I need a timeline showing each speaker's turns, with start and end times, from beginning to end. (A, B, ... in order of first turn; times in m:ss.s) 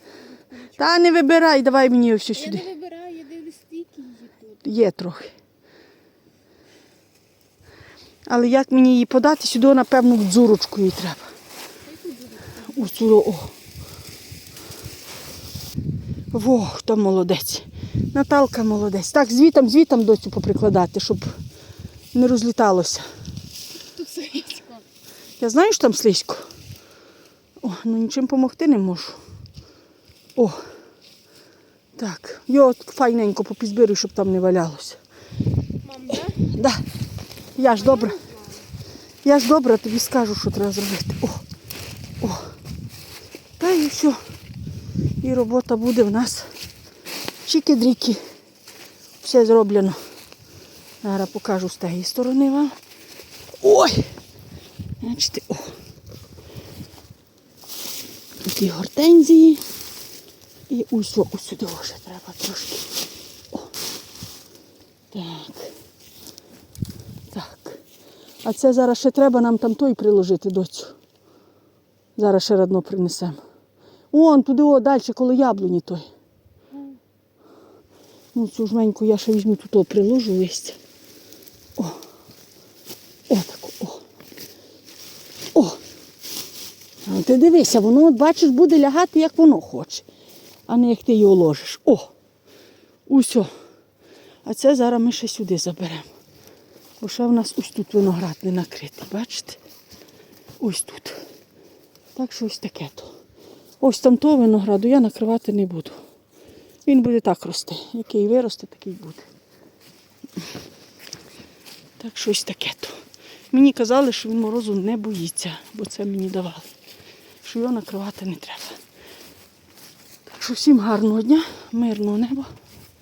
0:00.6-0:02.7 A
0:02.4-0:04.4 B
0:04.6-0:05.3 A
0:08.2-0:11.3 A
0:11.9-0:12.7 B
0:12.6-0:13.5 A
0:16.3-0:21.4 A
0:22.1-0:23.0 A
0:24.0-0:24.8 B
0:25.4-0:26.5 A
0:27.6-0:29.2 A
0:32.0-0:35.0 A
0:35.8-0:36.3 B
0:36.4-0:36.8 A
0:37.6-0:38.2 A
0:39.2-0:41.4 A
0:42.2-0:42.5 A
0:43.6-0:44.2 A
0:45.2-0:46.5 A
0:47.4-0:48.2 A
0:49.2-0:50.0 A
0:51.0-0:52.8 A
0:53.6-0:54.1 A
0:55.0-0:55.7 A
0:58.4-0:59.6 A
1:00.7-1:02.8 A
1:05.1-1:05.7 A
1:07.3-1:07.8 A
1:08.4-1:10.9 A
1:12.2-1:13.4 A
1:14.1-1:16.0 A
1:18.3-1:20.8 A
1:23.3-1:24.0 A
1:25.5-1:25.8 A
1:27.0-1:30.0 A
1:30.7-1:32.1 A
1:33.1-1:33.5 A
1:34.4-1:36.1 A
1:37.0-1:39.6 A
1:40.6-1:41.2 A
1:42.1-1:43.1 A
1:43.8-1:46.0 A
1:46.8-1:49.3 A
1:52.0-1:53.0 A
1:53.5-1:56.7 A
1:57.4-1:58.8 A
2:00.3-2:02.5 A